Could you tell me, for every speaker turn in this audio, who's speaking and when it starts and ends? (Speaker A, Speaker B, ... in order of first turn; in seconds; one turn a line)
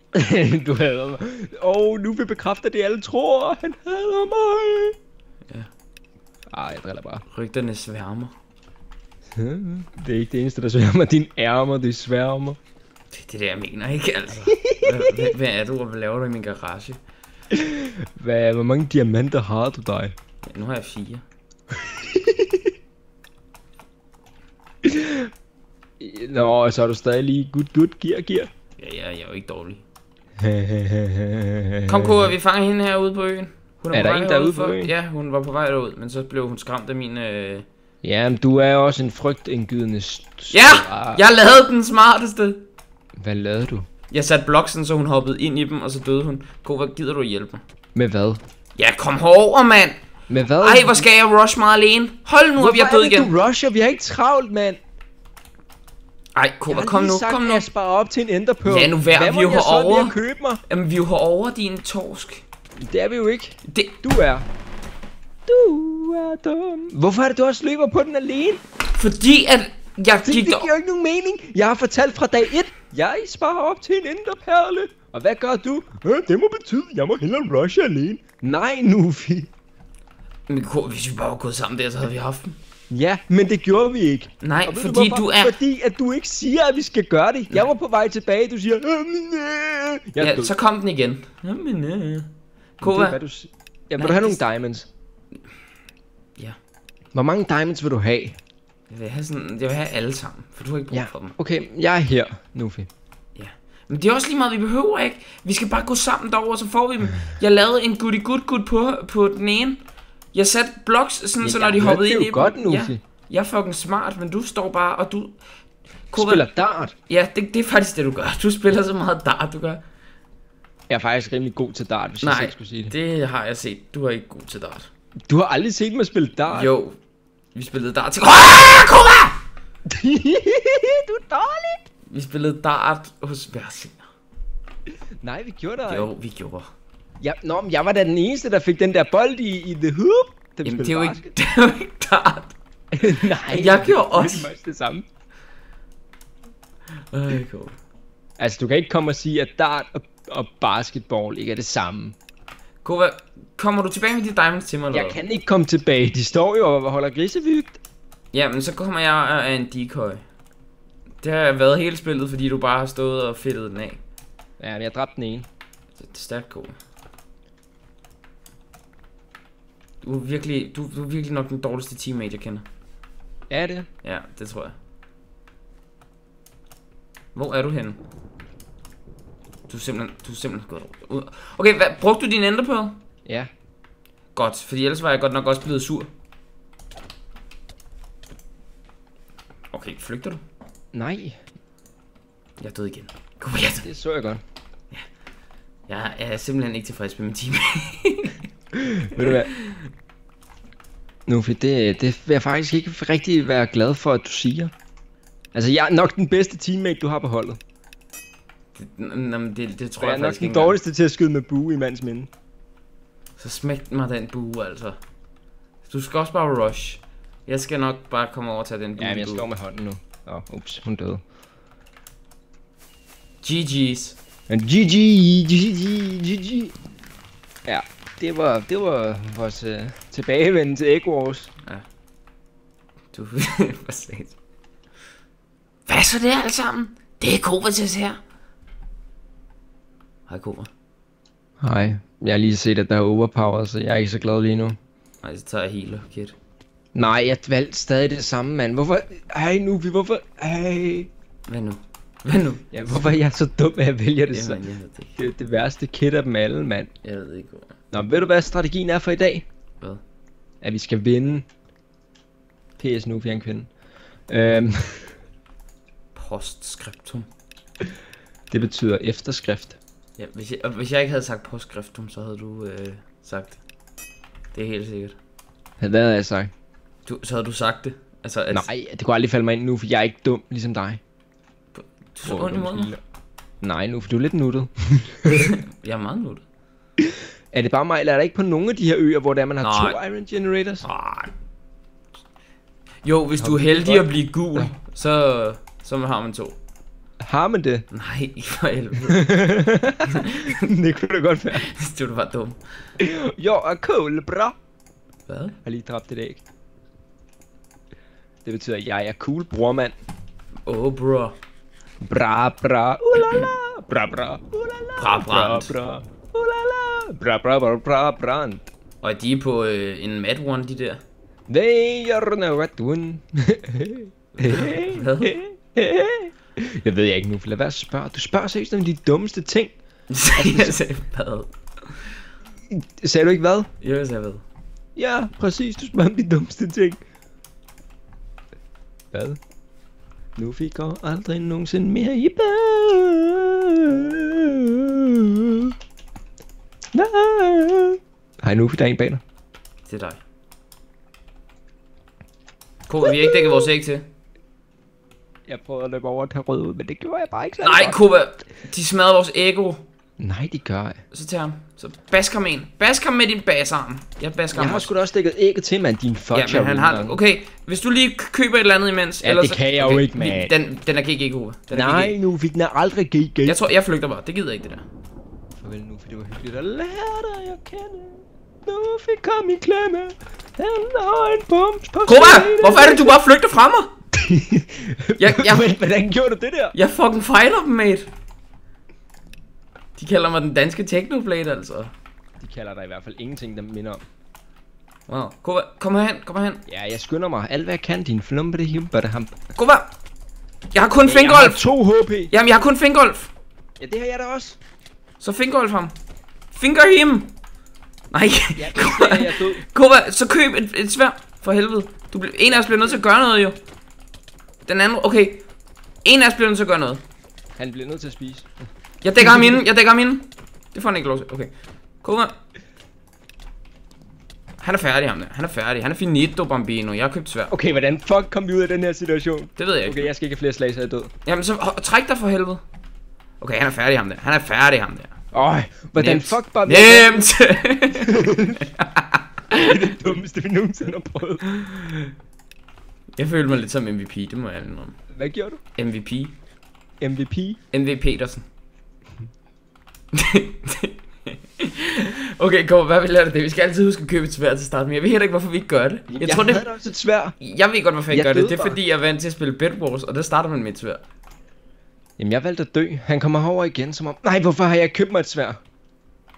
Speaker A: 0.1-5.0
Speaker A: 6.5-7.2
Speaker B: 7.3-8.3
Speaker A: 9.3-12.6
Speaker B: 13.1-17.0
Speaker A: 14.4-15.3
Speaker A: 17.5-20.1
Speaker B: 20.4-21.2
Speaker A: 21.8-22.7
Speaker A: 24.8-25.3
Speaker A: 26.0-28.5
Speaker B: 28.8-29.8
Speaker A: 30.4-32.3
Speaker B: 31.9-37.6
Speaker A: 33.9-34.9
Speaker A: 38.0-41.2
Speaker B: 40.5-42.7
Speaker A: 43.2-43.9
Speaker B: 44.1-47.6
Speaker A: 47.9-48.4
Speaker B: 48.8-50.0
Speaker A: 50.3-51.0
Speaker B: 50.6-53.3
Speaker A: 52.6-54.8
Speaker B: 56.3-57.6
Speaker A: 56.7-60.6
Speaker B: 58.6-62.4
Speaker A: 62.8-64.5
Speaker B: 63.6-64.0
Speaker A: 65.5-68.6
Speaker B: 68.9-70.7
Speaker A: 70.2-79.5
Speaker B: 80.5-82.6
Speaker A: 82.9-90.5
Speaker B: 84.4-85.5
Speaker B: 90.2-92.3
Speaker B: 92.8-93.2
Speaker A: 92.8-94.9
Speaker B: 94.0-94.4
Speaker A: 97.1-98.4
Speaker B: 98.9-101.3
Speaker A: 100.9-102.9
Speaker B: 103.3-109.8
Speaker B: 110.3-115.4
Speaker A: 111.4-113.0
Speaker B: 116.1-116.4
Speaker A: 116.2-116.9
Speaker B: 117.1-119.8
Speaker A: 120.9-122.9
Speaker B: 122.2-124.9
Speaker A: 125.3-126.7
Speaker B: 126.5-127.0
Speaker B: 127.5-129.4
Speaker A: 129.8-131.8
Speaker B: 132.1-134.1
Speaker A: 135.2-136.1
Speaker B: 135.8-136.7
Speaker A: 137.2-141.2
Speaker B: 140.6-142.5
Speaker A: 142.9-145.1
Speaker B: 143.2-144.5
Speaker B: 146.9-147.8
Speaker A: 148.4-152.2
Speaker B: 152.8-155.2
Speaker A: 154.9-157.8
Speaker B: 158.3-160.2
Speaker B: 161.2-164.0
Speaker A: 164.6-165.5
Speaker B: 165.9-166.7
Speaker B: 170.0-172.6
Speaker A: 173.5-173.9
Speaker B: 174.0-174.7
Speaker B: 177.3-178.0
Speaker B: 179.7-183.0
Speaker B: 184.3-186.1
Speaker B: 189.7-190.4
Speaker A: 190.9-191.3
Speaker B: 192.6-193.9
Speaker A: 193.8-194.4
Speaker B: 195.9-198.4
Speaker A: 198.7-199.5
Speaker B: 199.2-199.9
Speaker A: 201.3-204.7
Speaker A: 205.5-207.6
Speaker B: 208.7-210.8
Speaker A: 210.0-212.3
Speaker B: 213.4-215.0
Speaker B: 215.8-219.4
Speaker A: 219.0-221.2
Speaker B: 223.4-224.2
Speaker A: 224.5-226.7
Speaker A: 227.7-231.5
Speaker B: 233.1-234.3
Speaker B: 235.9-238.2
Speaker B: 240.3-240.7
Speaker A: 241.6-244.8
Speaker B: 245.2-246.3
Speaker A: 246.9-251.1
Speaker B: 251.4-253.2
Speaker A: 252.7-254.6
Speaker B: 254.3-255.2
Speaker A: 255.2-256.9
Speaker B: 257.0-257.7
Speaker A: 257.9-259.4
Speaker A: 260.6-261.4
Speaker A: 262.8-263.7
Speaker A: 264.3-265.1
Speaker B: 266.1-267.3
Speaker A: 268.5-269.8
Speaker B: 270.2-273.6
Speaker B: 274.5-275.2
Speaker A: 275.8-276.5
Speaker B: 277.1-278.7
Speaker A: 278.5-281.0
Speaker B: 281.7-282.9
Speaker A: 282.2-283.0
Speaker A: 283.6-285.5
Speaker B: 285.3-286.4
Speaker A: 287.0-290.9
Speaker B: 289.6-290.0
Speaker B: 290.8-291.3
Speaker B: 293.0-296.6
Speaker A: 293.4-294.7
Speaker A: 297.2-297.8
Speaker B: 297.9-299.3
Speaker A: 299.1-301.7
Speaker B: 300.1-300.6
Speaker B: 301.5-302.6
Speaker A: 303.0-304.5
Speaker B: 305.3-305.6
Speaker A: 305.6-306.4
Speaker A: 308.4-309.9
Speaker B: 310.6-311.4
Speaker A: 312.0-318.7
Speaker B: 315.0-315.7
Speaker B: 319.0-321.0
Speaker A: 321.5-329.7
Speaker B: 324.4-325.3
Speaker B: 330.1-332.2
Speaker A: 330.3-330.8
Speaker A: 332.7-333.7
Speaker B: 333.8-334.4
Speaker A: 334.9-337.0
Speaker A: 339.1-339.4
Speaker A: 340.4-345.7
Speaker A: 346.9-349.2
Speaker B: 349.9-350.2
Speaker B: 352.9-354.1
Speaker A: 353.0-353.7
Speaker A: 355.5-358.0
Speaker B: 357.6-359.8
Speaker A: 360.2-361.0
Speaker B: 361.1-364.9
Speaker A: 364.5-367.2
Speaker B: 366.3-372.2
Speaker A: 369.2-370.5
Speaker A: 371.7-373.6
Speaker B: 373.4-374.8
Speaker A: 375.6-383.1
Speaker B: 382.0-383.9
Speaker A: 384.1-386.8
Speaker B: 385.2-385.7
Speaker B: 386.7-388.1
Speaker B: 390.0-391.9
Speaker A: 392.4-394.0
Speaker B: 395.1-396.6
Speaker A: 396.7-399.3
Speaker B: 399.5-399.9
Speaker B: 400.7-401.6
Speaker A: 401.0-402.3
Speaker B: 402.3-403.3
Speaker A: 403.8-404.6
Speaker B: 405.2-405.9
Speaker B: 406.5-407.3
Speaker B: 408.1-413.6
Speaker A: 408.6-409.6
Speaker A: 412.6-413.0
Speaker B: 414.6-415.4
Speaker B: 416.0-417.0
Speaker A: 417.6-418.5
Speaker B: 419.0-422.3
Speaker A: 419.2-419.6
Speaker B: 424.6-427.5
Speaker A: 427.5-431.1
Speaker B: 429.6-430.1
Speaker B: 431.2-432.6
Speaker B: 433.4-435.1
Speaker A: 435.3-437.3
Speaker B: 435.9-439.9
Speaker A: 437.9-438.7
Speaker A: 439.5-441.8
Speaker B: 441.6-441.9
Speaker B: 443.1-444.9
Speaker A: 445.1-445.6
Speaker B: 445.8-446.4
Speaker A: 447.0-447.6
Speaker B: 447.7-448.4
Speaker B: 450.1-456.6
Speaker A: 456.1-457.4
Speaker B: 457.4-461.0
Speaker A: 458.1-458.8
Speaker A: 462.2-465.6